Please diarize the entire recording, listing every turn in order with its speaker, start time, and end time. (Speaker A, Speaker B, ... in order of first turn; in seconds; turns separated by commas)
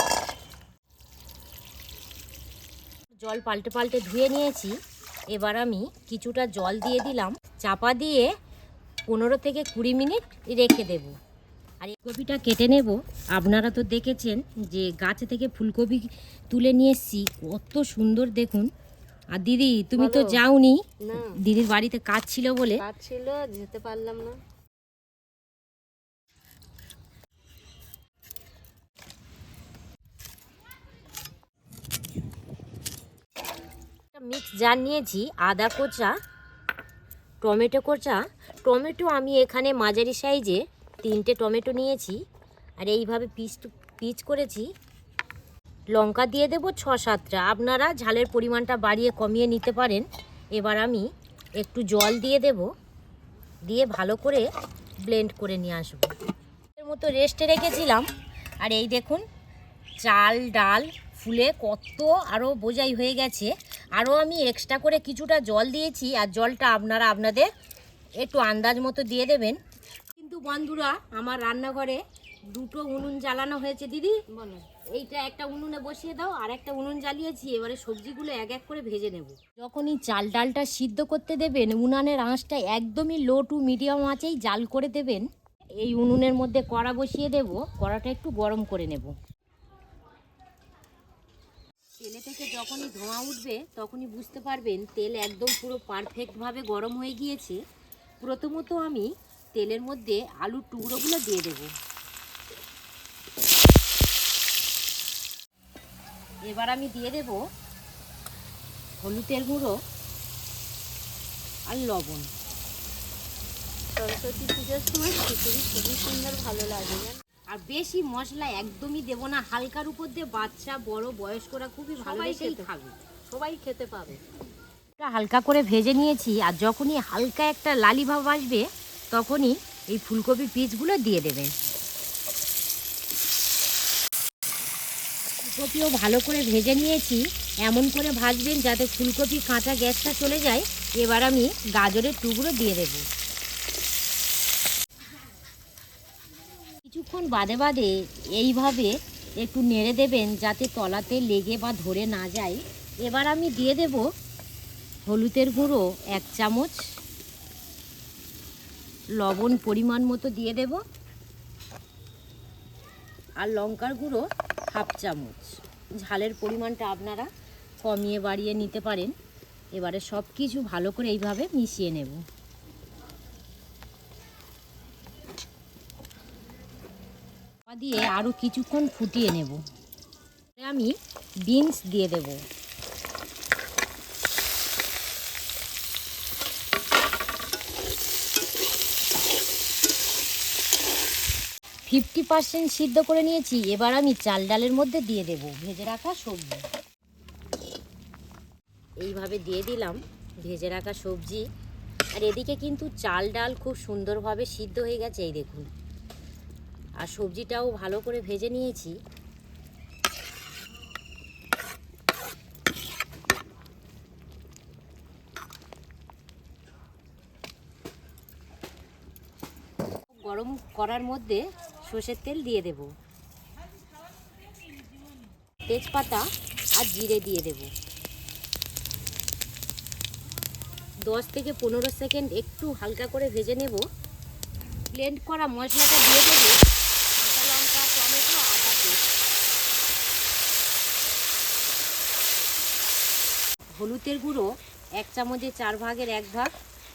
Speaker A: 3.2-4.7, Speaker A: 5.3-8.3, Speaker A: 9.1-11.1, Speaker A: 11.8-18.7, Speaker A: 19.4-20.8, Speaker B: 20.0-20.4, Speaker B: 21.0-21.4, Speaker A: 21.3-22.8, Speaker B: 22.8-24.4, Speaker A: 34.1-36.1, Speaker A: 37.4-42.2, Speaker A: 42.8-44.7, Speaker A: 45.9-50.0, Speaker A: 50.5-51.0, Speaker A: 51.6-52.7, Speaker A: 53.7-54.5, Speaker A: 55.1-56.1, Speaker A: 56.8-58.1, Speaker A: 58.6-59.2, Speaker A: 60.0-67.5, Speaker A: 68.2-69.6, Speaker A: 70.2-72.0, Speaker A: 72.5-74.2, Speaker B: 74.3-74.7, Speaker A: 74.9-85.2, Speaker A: 85.8-89.1, Speaker A: 92.0-97.6, Speaker A: 98.2-101.7, Speaker A: 106.5-107.4, Speaker A: 109.0-109.8, Speaker A: 111.7-112.3, Speaker B: 114.0-117.2, Speaker A: 117.5-123.0, Speaker B: 122.0-122.7, Speaker B: 123.3-124.2, Speaker A: 125.0-131.5, Speaker A: 135.4-143.1, Speaker A: 146.9-154.1, Speaker A: 155.1-156.8, Speaker A: 159.2-160.8, Speaker A: 163.4-167.3, Speaker A: 167.8-169.1, Speaker A: 169.8-172.2, Speaker A: 177.7-179.6, Speaker A: 180.6-180.9, Speaker A: 181.5-182.4, Speaker A: 191.9-196.6, Speaker A: 199.0-201.4, Speaker A: 202.2-205.7, Speaker A: 207.0-208.9, Speaker A: 220.2-222.9, Speaker A: 225.7-227.7, Speaker A: 231.1-233.8, Speaker A: 234.9-236.6, Speaker A: 237.2-239.0, Speaker A: 243.8-244.5, Speaker A: 245.0-246.5